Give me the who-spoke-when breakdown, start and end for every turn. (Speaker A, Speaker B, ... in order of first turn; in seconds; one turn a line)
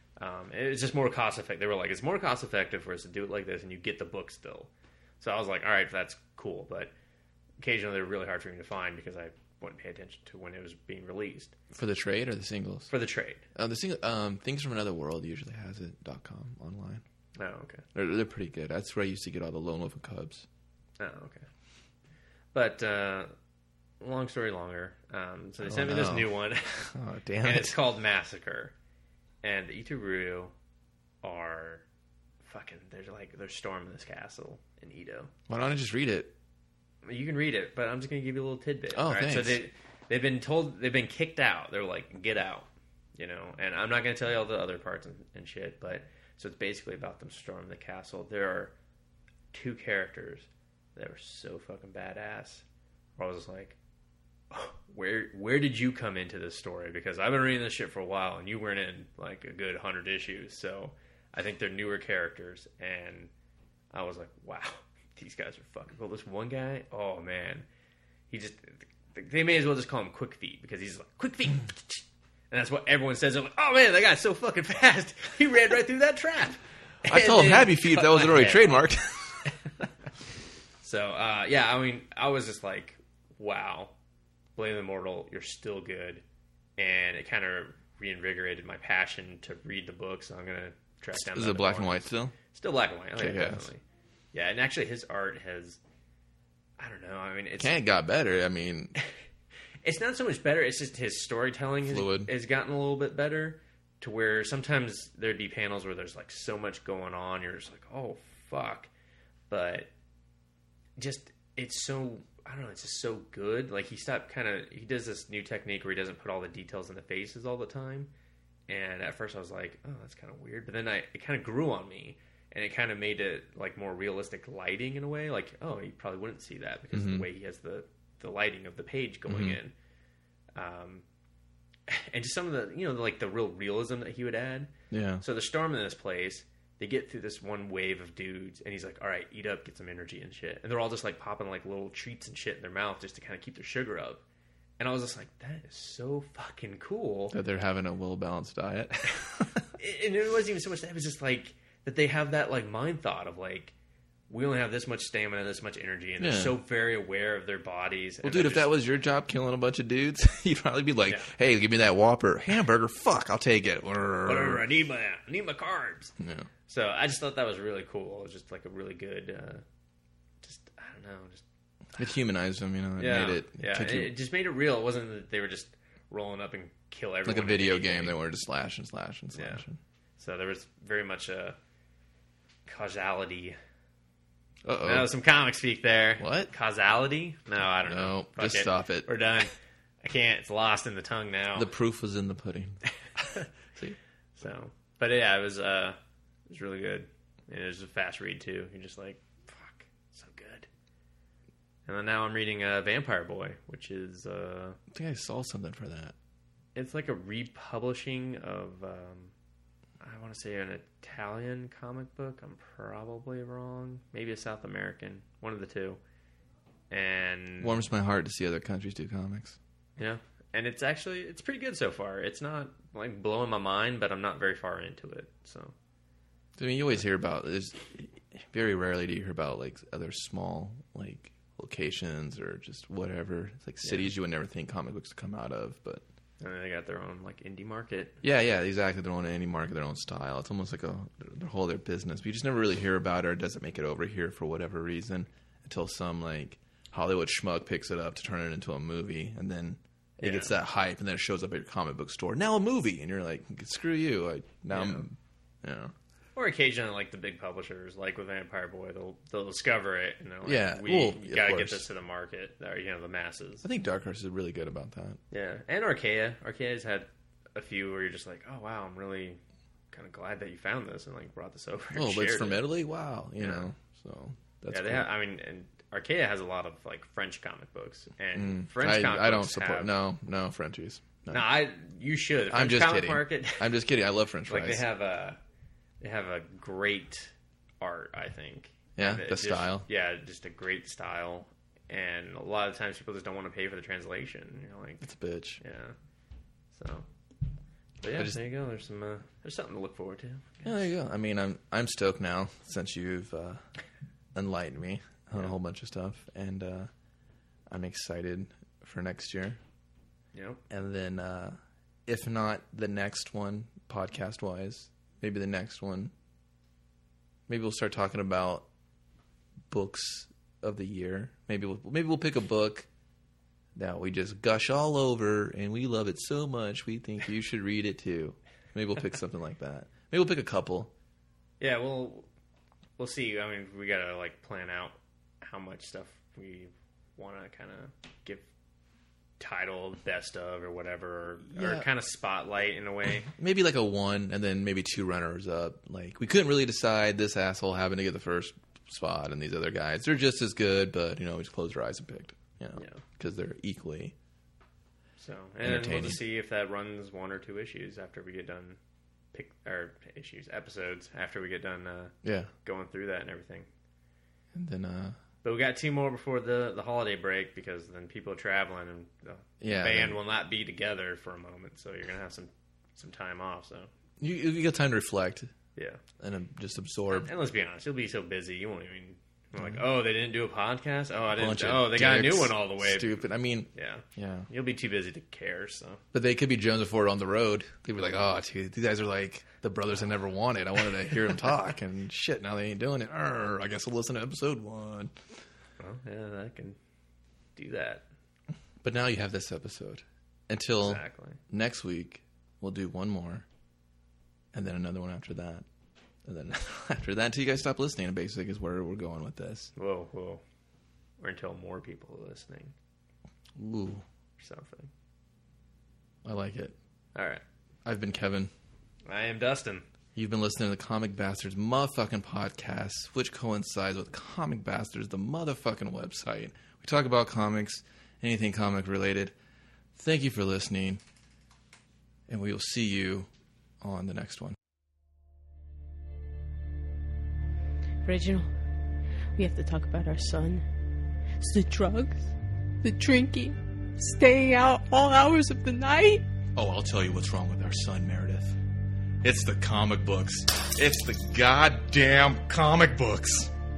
Speaker A: 0.2-6.9
Speaker A: 7.6-11.5
Speaker B: 11.7-12.9
Speaker A: 12.9-13.4
Speaker B: 13.5-17.0
Speaker A: 17.4-17.8
Speaker B: 17.9-20.5
Speaker A: 21.0-21.4
Speaker A: 22.5-23.3
Speaker A: 24.0-28.7
Speaker B: 25.6-26.4
Speaker B: 26.9-27.8
Speaker A: 29.4-30.5
Speaker A: 31.2-31.8
Speaker A: 32.4-35.3
Speaker B: 35.5-36.3
Speaker A: 37.0-48.7
Speaker B: 38.9-39.6
Speaker A: 49.5-52.6
Speaker A: 53.2-53.8
Speaker A: 54.5-63.3
Speaker A: 63.9-67.7
Speaker A: 68.3-78.8
Speaker B: 77.1-79.5
Speaker A: 80.8-83.9
Speaker A: 84.5-86.2
Speaker A: 86.8-95.8
Speaker B: 91.1-92.3
Speaker B: 93.2-93.7
Speaker A: 96.8-97.8
Speaker B: 97.6-99.0
Speaker A: 99.8-108.9
Speaker B: 101.8-102.3
Speaker A: 109.5-109.9
Speaker A: 111.0-118.1
Speaker A: 118.7-129.7
Speaker B: 126.9-127.2
Speaker B: 129.3-129.6
Speaker A: 130.6-131.0
Speaker A: 131.9-144.2
Speaker B: 134.9-135.2
Speaker A: 144.8-147.3
Speaker B: 147.3-149.7
Speaker A: 149.8-153.7
Speaker A: 154.3-158.7
Speaker B: 156.2-156.6
Speaker B: 158.2-164.6
Speaker A: 164.2-166.1
Speaker B: 166.2-166.5
Speaker A: 166.7-169.6
Speaker A: 170.4-171.4
Speaker B: 172.0-174.1
Speaker A: 173.0-178.1
Speaker B: 177.2-179.8
Speaker A: 179.3-179.6
Speaker A: 180.2-181.6
Speaker A: 182.7-183.6
Speaker B: 184.6-185.1
Speaker A: 184.8-191.7
Speaker B: 186.2-186.5
Speaker B: 187.8-189.1
Speaker B: 191.5-192.8
Speaker A: 193.2-193.5
Speaker A: 194.3-196.0
Speaker A: 196.5-200.7
Speaker A: 201.9-204.8
Speaker B: 204.9-206.1
Speaker A: 206.7-209.3
Speaker A: 210.0-216.0
Speaker A: 216.9-217.8
Speaker B: 217.6-219.6
Speaker A: 220.0-225.7
Speaker B: 226.6-236.0
Speaker A: 233.8-234.1
Speaker A: 236.4-238.2
Speaker B: 238.2-255.9
Speaker A: 250.2-250.5
Speaker A: 254.7-255.1
Speaker A: 256.4-263.6
Speaker B: 260.4-261.8
Speaker B: 263.6-265.2
Speaker A: 265.3-269.4
Speaker A: 269.9-272.6
Speaker B: 271.9-275.1
Speaker A: 273.4-273.7
Speaker A: 274.7-279.9
Speaker B: 278.3-281.4
Speaker A: 281.3-283.6
Speaker B: 282.5-284.8
Speaker A: 284.5-285.4
Speaker A: 286.0-295.0
Speaker B: 288.9-289.9
Speaker B: 295.0-295.6
Speaker A: 295.6-295.9
Speaker A: 296.7-297.1
Speaker A: 298.0-300.8
Speaker B: 298.1-298.4
Speaker B: 300.6-303.6
Speaker B: 304.3-306.9
Speaker B: 307.7-309.6
Speaker A: 310.3-310.6
Speaker B: 310.7-316.1
Speaker B: 317.5-318.6
Speaker B: 319.7-322.9
Speaker B: 323.8-330.9
Speaker A: 331.6-332.3
Speaker A: 333.0-338.5
Speaker A: 339.4-343.3
Speaker B: 341.5-341.9
Speaker B: 343.3-354.1
Speaker A: 352.8-353.0
Speaker A: 355.2-358.8
Speaker B: 355.6-356.2
Speaker A: 359.3-363.7
Speaker B: 362.2-362.5
Speaker B: 364.5-365.2
Speaker A: 365.4-373.9
Speaker B: 369.6-370.2
Speaker B: 374.2-375.5
Speaker A: 375.8-376.0
Speaker B: 376.2-377.3
Speaker A: 377.1-383.2
Speaker B: 381.4-384.5
Speaker A: 383.7-386.0
Speaker B: 386.1-395.1
Speaker A: 395.8-396.8
Speaker A: 397.6-398.1
Speaker B: 398.8-403.4
Speaker A: 400.8-401.4
Speaker B: 404.5-405.6
Speaker B: 406.2-409.7
Speaker A: 409.8-410.4
Speaker A: 411.2-412.7
Speaker B: 413.6-414.0
Speaker A: 414.4-414.9
Speaker B: 416.2-416.7
Speaker A: 417.1-417.4
Speaker B: 417.8-418.5
Speaker A: 419.1-419.9
Speaker B: 420.1-429.3
Speaker B: 429.9-431.0
Speaker B: 432.3-433.3
Speaker B: 433.8-434.6
Speaker C: 438.0-438.5
Speaker C: 439.3-440.6
Speaker C: 441.4-446.2
Speaker B: 446.5-448.6
Speaker B: 449.2-453.5